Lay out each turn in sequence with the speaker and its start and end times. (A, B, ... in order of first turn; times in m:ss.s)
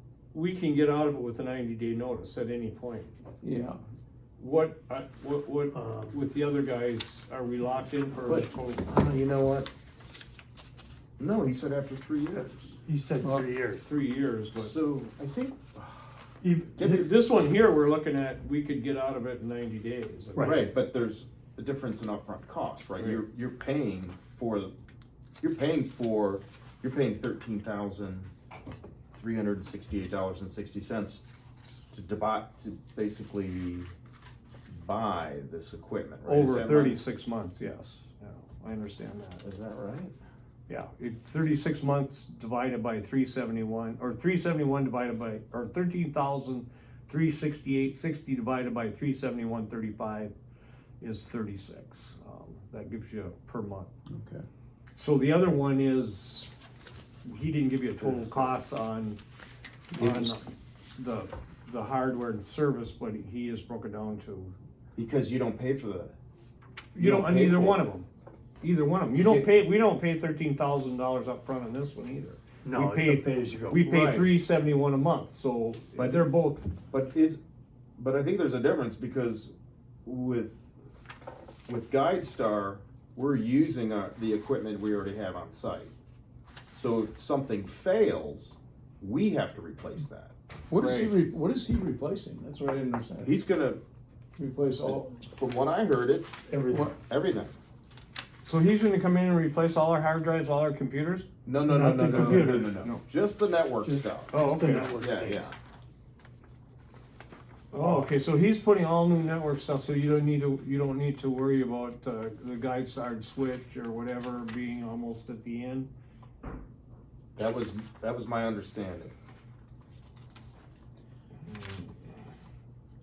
0:00.3-0:03.1 A
0:03.4-0:03.8 B
0:04.4-0:08.9 A
0:05.7-0:06.2 C
0:08.3-0:09.7 D
0:11.2-0:12.8 D
0:12.3-0:13.9 C
0:13.8-0:14.7 A
0:14.5-0:16.2 D
0:16.4-0:17.1 C
0:16.8-0:17.1 D
0:16.8-0:20.7 A
0:20.3-0:20.6 C
0:20.4-0:24.7 D
0:25.4-0:28.3 D
0:29.1-0:31.2 D
0:31.9-0:33.9 D
0:34.7-0:37.0 D
0:36.2-0:39.4 A
0:39.4-0:40.2 D
0:40.7-0:50.3 A
0:51.0-0:53.9 A
0:54.1-0:54.4 B
0:55.0-0:56.5 A
0:57.2-0:59.2 A
0:58.0-0:58.6 D
0:59.9-1:04.6 A
1:00.0-1:00.4 D
1:05.0-1:06.2 D
1:07.0-1:08.1 A
1:07.0-1:07.9 D
1:08.6-1:16.7 A
1:09.2-1:09.5 D
1:12.6-1:14.3 C
1:16.0-1:16.3 D
1:16.9-1:17.4 D
1:18.0-1:19.5 D
1:20.0-1:20.7 D
1:21.7-1:25.9 D
1:26.7-1:30.3 D
1:30.7-1:33.3 B
1:30.8-1:31.2 A
1:33.2-1:33.8 D
1:34.4-1:35.1 B
1:34.8-1:36.3 D
1:36.5-1:36.9 C
1:37.1-1:37.6 D
1:38.4-1:41.3 A
1:41.4-1:44.4 D
1:41.6-1:42.8 C
1:42.1-1:43.0 A
1:43.8-1:45.5 C
1:44.3-1:45.0 A
1:45.0-1:45.5 D
1:47.7-1:55.9 A
1:47.8-1:48.1 C
1:57.4-1:59.1 D
2:01.4-2:01.9 A